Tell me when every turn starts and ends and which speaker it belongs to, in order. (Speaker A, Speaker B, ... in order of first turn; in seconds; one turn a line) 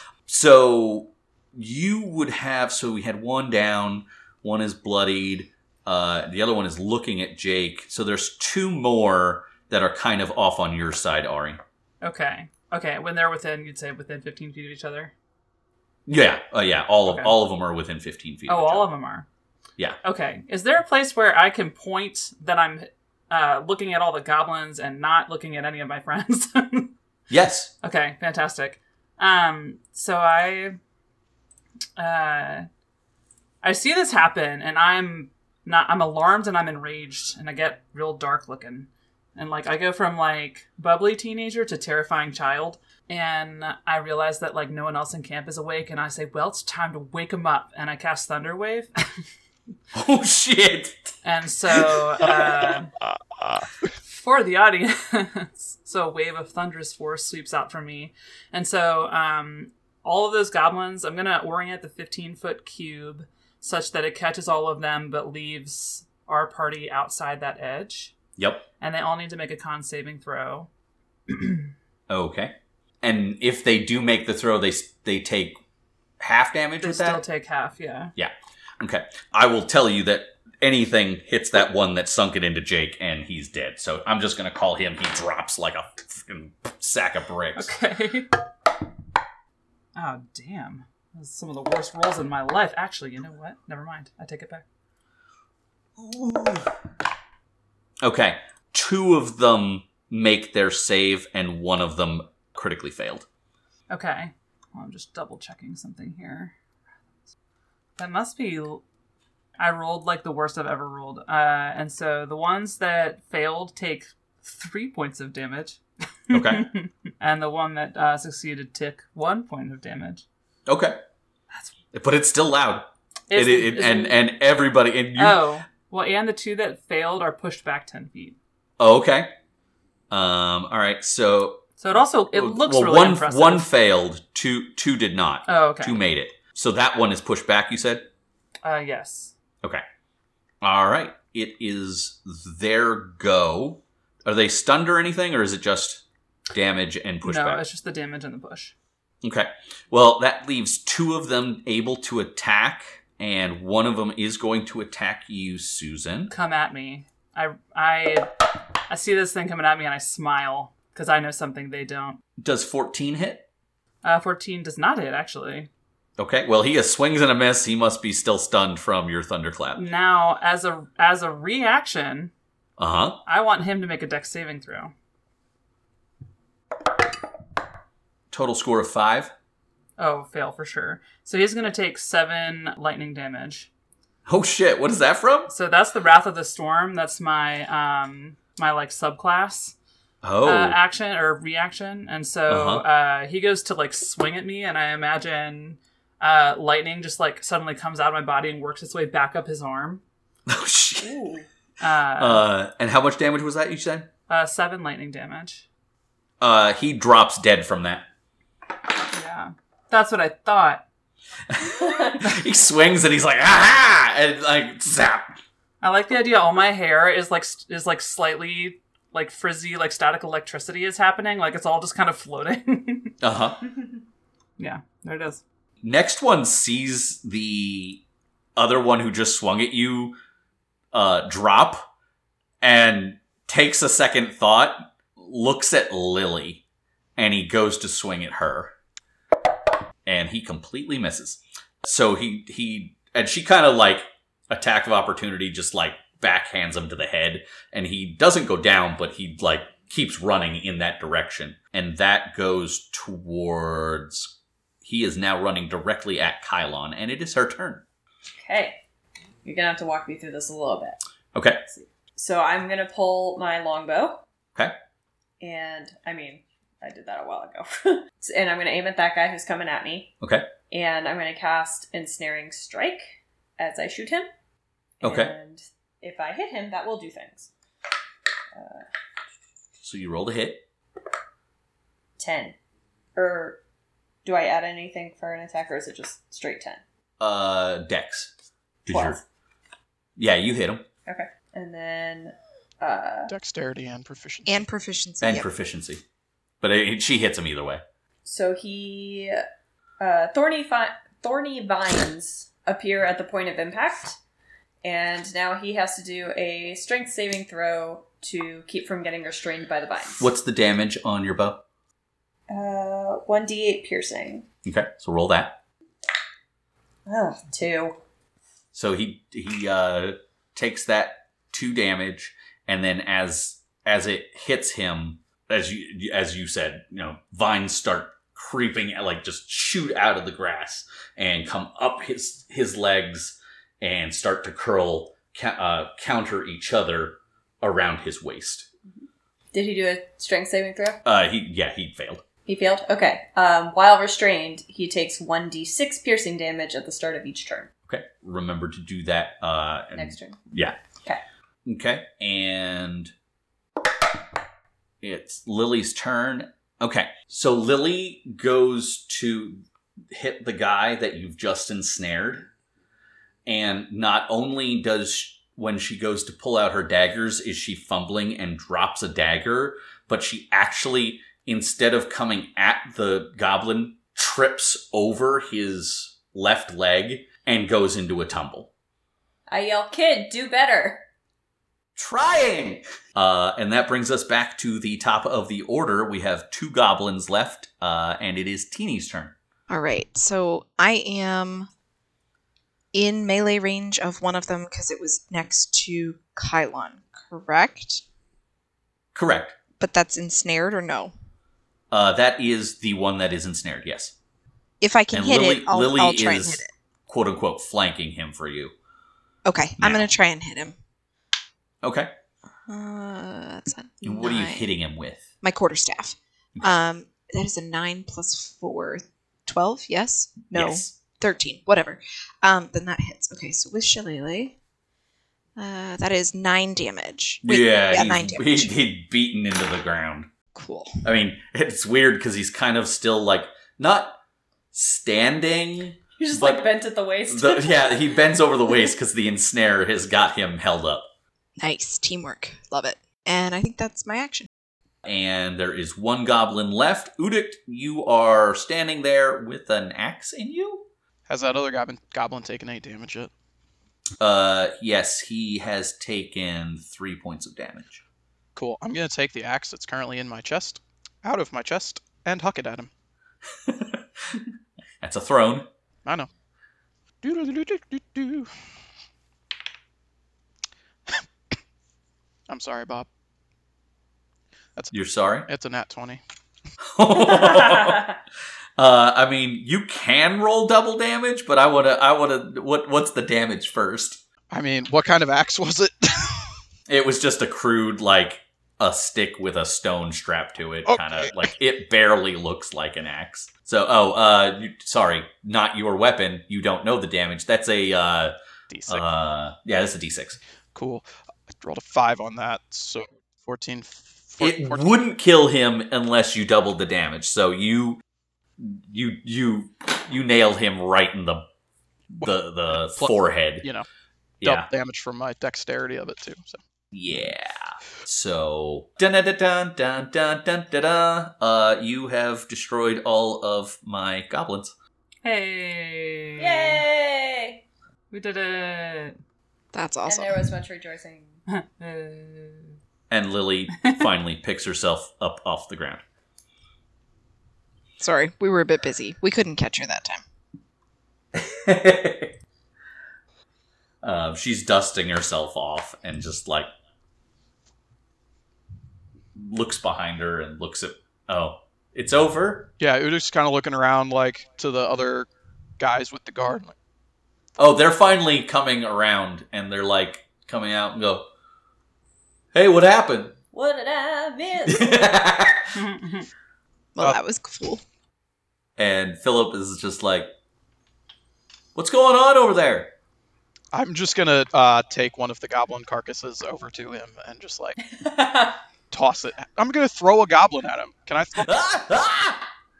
Speaker A: 0.3-11.6
Speaker B: 12.0-15.1
Speaker A: 16.1-18.9
Speaker B: 17.1-17.4
Speaker B: 18.5-19.3
Speaker B: 20.0-26.9
Speaker A: 27.3-27.7
Speaker B: 27.8-30.8
Speaker B: 32.0-32.7
Speaker B: 33.6-48.9
Speaker A: 49.9-51.1
Speaker B: 51.2-52.9
Speaker B: 54.1-68.1
Speaker A: 68.4-68.7
Speaker B: 68.8-70.7
Speaker B: 71.3-71.7
Speaker A: 72.1-75.6
Speaker A: 76.2-77.2
Speaker B: 76.8-78.1
Speaker A: 78.2-87.7
Speaker B: 87.6-88.4
Speaker B: 90.0-94.6
Speaker A: 96.0-96.7
Speaker A: 98.0-103.3
Speaker B: 103.9-106.5
Speaker B: 108.0-108.8
Speaker B: 109.6-120.2
Speaker A: 116.3-116.7
Speaker A: 120.7-121.0
Speaker A: 121.9-125.4
Speaker B: 123.3-124.2
Speaker B: 125.2-128.4
Speaker A: 128.8-129.3
Speaker A: 130.1-131.7
Speaker B: 131.8-133.7
Speaker A: 132.3-138.1
Speaker B: 135.5-136.0
Speaker B: 138.6-139.3
Speaker A: 140.6-147.6
Speaker B: 147.2-148.7
Speaker A: 149.2-156.3
Speaker B: 156.3-158.3
Speaker B: 158.9-162.2
Speaker A: 162.4-163.5
Speaker B: 164.0-165.7
Speaker A: 166.2-169.9
Speaker B: 169.8-172.3
Speaker A: 172.8-173.2
Speaker B: 173.2-174.9
Speaker A: 178.3-179.3
Speaker B: 180.0-183.7
Speaker A: 184.3-185.5
Speaker B: 185.5-189.8
Speaker A: 190.2-190.8
Speaker B: 190.4-200.0
Speaker A: 192.5-192.8
Speaker A: 200.5-201.2
Speaker C: 201.0-201.5
Speaker B: 201.8-202.4
Speaker A: 202.2-204.1
Speaker B: 204.3-205.7
Speaker A: 206.4-208.1
Speaker B: 209.1-210.8
Speaker A: 211.5-215.4
Speaker C: 211.8-212.2
Speaker B: 215.8-223.2
Speaker A: 223.2-223.6
Speaker B: 224.6-225.4
Speaker A: 225.8-228.0
Speaker A: 228.6-230.2
Speaker A: 230.9-231.9
Speaker A: 232.6-236.6
Speaker A: 237.2-238.7
Speaker A: 240.1-257.8
Speaker C: 258.4-258.8
Speaker C: 259.4-261.0
Speaker A: 261.4-261.6
Speaker C: 261.7-264.2
Speaker C: 265.4-270.1
Speaker A: 270.2-270.5
Speaker C: 270.7-274.3
Speaker A: 275.0-275.3
Speaker C: 275.0-277.5
Speaker C: 278.5-278.9
Speaker A: 279.8-280.6
Speaker C: 282.2-282.6
Speaker C: 283.1-283.6
Speaker C: 284.2-286.8
Speaker A: 287.2-288.3
Speaker A: 288.9-289.2
Speaker C: 288.9-289.2
Speaker A: 290.2-290.9
Speaker C: 291.1-293.3
Speaker D: 293.3-294.6
Speaker E: 294.5-295.5
Speaker A: 295.2-296.0
Speaker A: 296.6-297.8
Speaker C: 298.2-299.4
Speaker C: 300.0-304.2
Speaker C: 304.8-310.3
Speaker A: 310.2-311.6
Speaker C: 312.5-314.5
Speaker A: 314.6-315.6
Speaker C: 317.1-317.9
Speaker A: 318.7-338.7
Speaker C: 338.9-341.0
Speaker A: 341.1-342.2
Speaker C: 342.5-347.7
Speaker A: 347.9-350.8
Speaker C: 349.9-350.4
Speaker A: 351.7-353.1
Speaker A: 355.0-362.5
Speaker A: 363.5-378.7
Speaker C: 379.5-381.1
Speaker A: 382.0-389.4
Speaker E: 389.7-391.7
Speaker E: 392.9-398.0
Speaker A: 399.1-399.6
Speaker E: 399.8-401.1
Speaker A: 401.9-404.1
Speaker E: 404.8-406.7
Speaker A: 405.1-408.7
Speaker E: 409.4-410.8
Speaker A: 409.8-410.1
Speaker A: 411.8-412.1
Speaker E: 412.7-414.7
Speaker A: 414.0-415.2
Speaker E: 415.4-424.6
Speaker A: 420.5-420.9
Speaker E: 425.6-428.7
Speaker A: 427.4-430.3
Speaker E: 430.6-431.1
Speaker A: 431.0-434.2
Speaker A: 434.7-436.6
Speaker C: 436.2-438.2
Speaker A: 437.3-441.1
Speaker E: 441.6-444.5
Speaker A: 445.1-450.9
Speaker D: 451.3-453.3
Speaker A: 454.2-458.0
Speaker D: 458.6-462.9
Speaker A: 463.6-464.4
Speaker A: 465.0-465.7
Speaker D: 467.2-468.5
Speaker D: 472.5-473.1
Speaker A: 474.9-475.5
Speaker D: 475.5-476.2
Speaker A: 476.9-478.2
Speaker C: 477.3-478.1
Speaker A: 478.8-484.2
Speaker D: 484.5-486.6
Speaker A: 486.9-498.4
Speaker D: 490.9-491.4
Speaker D: 498.7-499.1
Speaker A: 498.9-500.4
Speaker D: 500.7-504.9
Speaker A: 504.4-508.0
Speaker A: 508.6-511.5
Speaker A: 512.1-513.7
Speaker D: 512.2-513.9
Speaker A: 514.4-514.7
Speaker D: 514.4-516.6
Speaker A: 516.9-524.8
Speaker B: 525.2-526.8
Speaker C: 526.4-527.6
Speaker B: 528.1-529.2
Speaker E: 529.7-530.5
Speaker C: 530.1-531.4
Speaker B: 531.5-532.8
Speaker A: 533.1-536.0
Speaker E: 538.0-540.2
Speaker A: 541.3-542.3
Speaker A: 544.0-546.7
Speaker A: 549.4-552.7
Speaker D: 552.8-555.3
Speaker D: 555.8-556.8
Speaker A: 557.6-561.3
Speaker A: 562.5-563.4
Speaker C: 563.5-565.1
Speaker A: 564.7-565.8
Speaker B: 565.7-566.3
Speaker E: 567.0-567.8
Speaker A: 568.8-570.3
Speaker A: 571.8-572.9
Speaker D: 573.7-577.8
Speaker C: 577.9-578.6
Speaker D: 578.9-581.5
Speaker A: 581.4-582.5